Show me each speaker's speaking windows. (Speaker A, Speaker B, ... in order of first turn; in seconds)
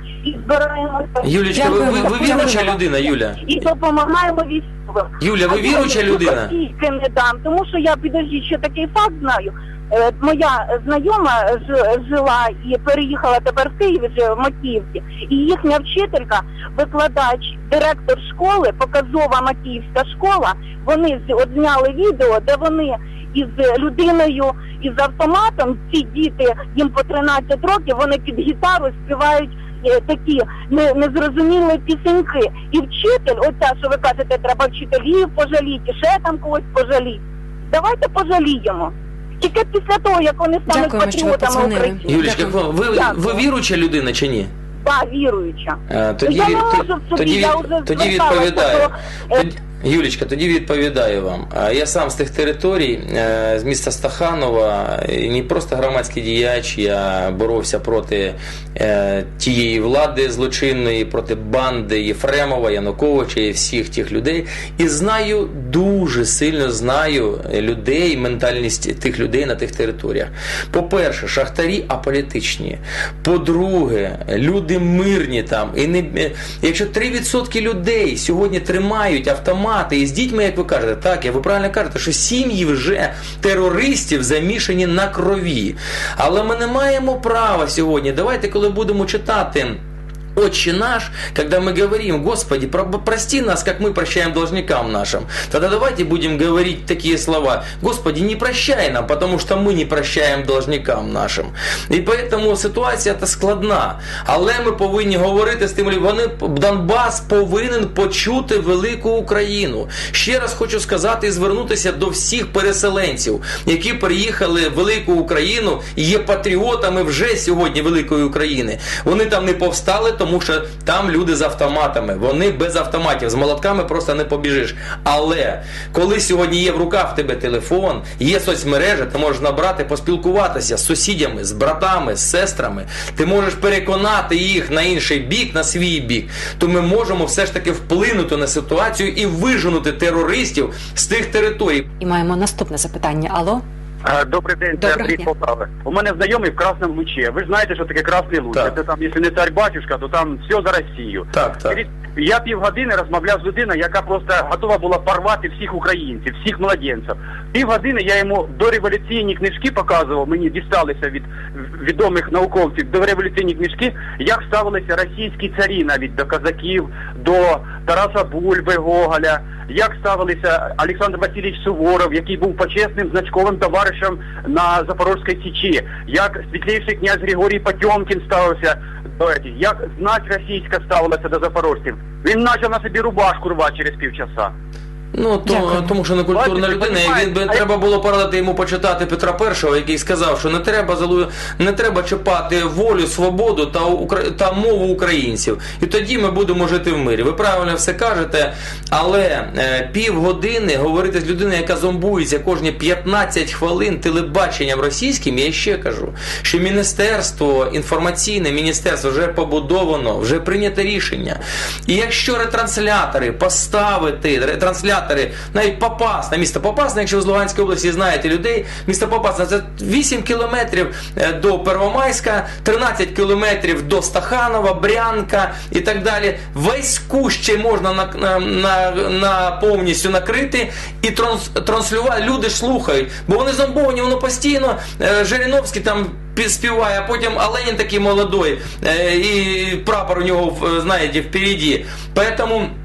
Speaker A: 0.2-2.5, 3.4-42.3, 42.9-43.4, 44.8-49.4
Speaker B: 1.2-3.4, 5.2-6.5, 42.3-44.5, 45.9-89.8, 90.3-141.9, 151.3-151.8, 185.1-242.7
Speaker C: 1.5-2.8, 40.7-42.6, 142.0-143.6, 144.8-145.3, 185.5-185.9
Speaker D: 144.0-184.5, 186.3-187.4